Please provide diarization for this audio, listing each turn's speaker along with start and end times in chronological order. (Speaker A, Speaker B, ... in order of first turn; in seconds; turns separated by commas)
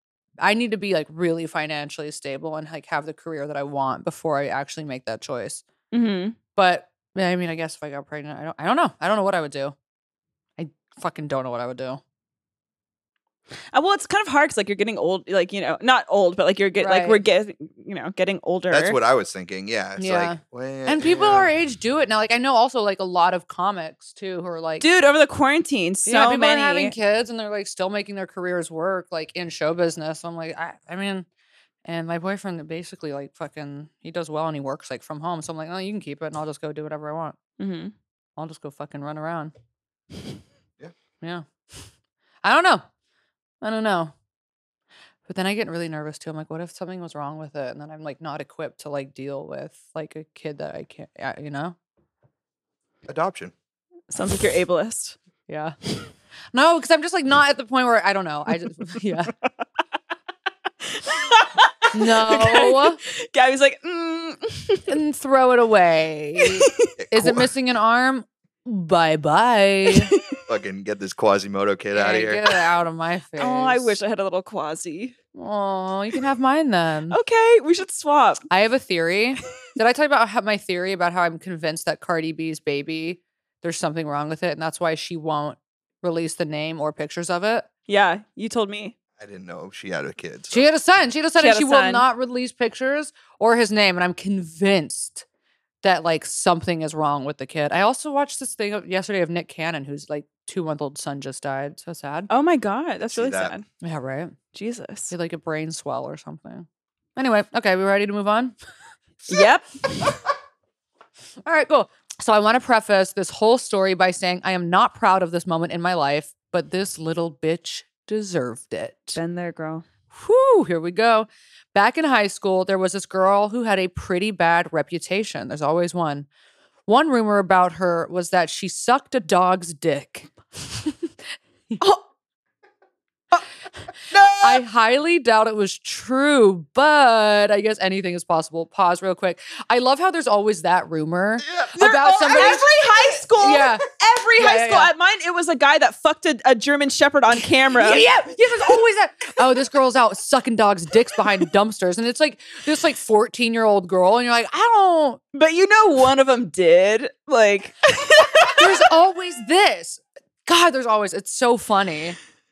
Speaker A: 0.4-5.6, Speaker B: 5.9-6.4, Speaker A: 6.5-9.7, Speaker A: 10.6-12.0, Speaker B: 13.7-19.0, Speaker A: 16.8-17.2, Speaker C: 18.7-21.5, Speaker A: 20.0-24.8, Speaker B: 24.8-26.9, Speaker A: 26.1-31.2, Speaker A: 31.8-37.4, Speaker B: 37.6-37.9, Speaker A: 38.4-39.5, Speaker A: 41.2-41.8, Speaker A: 42.4-42.8, Speaker A: 43.6-44.1, Speaker A: 45.2-51.8, Speaker C: 53.1-53.5, Speaker B: 54.1-55.1, Speaker A: 55.5-55.8, Speaker A: 56.5-59.3, Speaker B: 60.8-65.0, Speaker A: 61.9-63.0, Speaker A: 64.9-70.1, Speaker B: 66.4-66.8, Speaker C: 67.0-67.5, Speaker B: 69.9-70.2, Speaker C: 70.5-72.4, Speaker A: 71.9-74.0, Speaker B: 73.4-75.2, Speaker A: 75.3-77.2, Speaker B: 77.1-78.4, Speaker A: 78.5-87.7, Speaker B: 87.9-88.9, Speaker C: 89.2-90.6, Speaker A: 90.5-95.2, Speaker B: 91.4-92.0, Speaker A: 95.8-102.3, Speaker B: 102.3-103.6, Speaker C: 103.0-103.5, Speaker A: 103.8-104.3, Speaker B: 104.5-105.1, Speaker A: 105.1-108.5, Speaker B: 109.3-110.2, Speaker A: 111.4-119.2, Speaker B: 119.1-119.8, Speaker A: 120.1-126.3, Speaker A: 126.9-131.0, Speaker C: 134.1-134.6, Speaker A: 134.3-143.8, Speaker B: 141.7-148.1, Speaker A: 144.4-144.9, Speaker A: 147.7-155.2, Speaker B: 155.3-158.9, Speaker A: 158.6-162.2